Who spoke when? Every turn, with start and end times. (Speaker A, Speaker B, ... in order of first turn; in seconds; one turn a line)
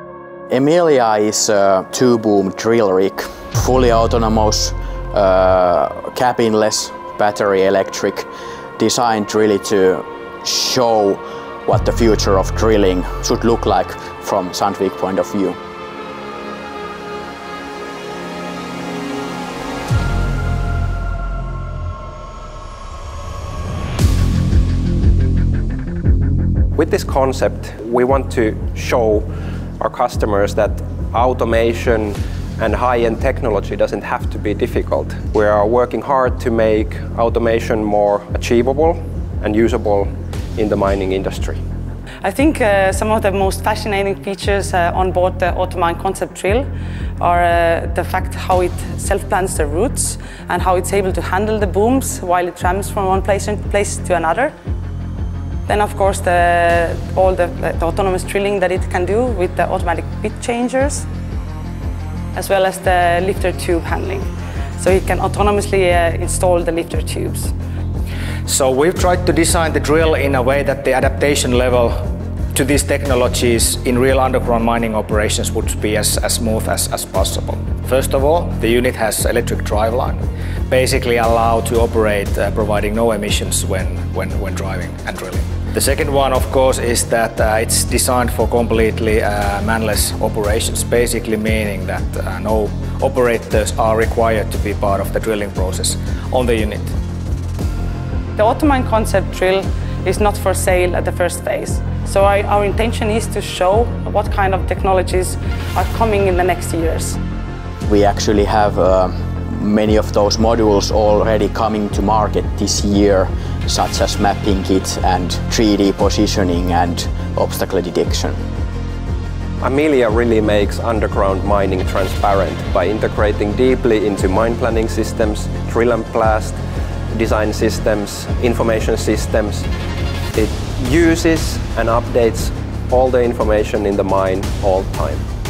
Speaker A: 0.5-8.3
Speaker A: 8.8-15.6
Speaker B: 26.7-41.6
Speaker C: 42.2-46.7
Speaker C: 47.2-54.5
Speaker C: 55.6-61.0
Speaker C: 62.3-67.5
Speaker D: 68.5-96.9
Speaker C: 98.3-107.2
Speaker A: 107.8-118.4
Speaker B: 119.6-126.6
Speaker B: 127.1-129.7
Speaker B: 130.3-135.2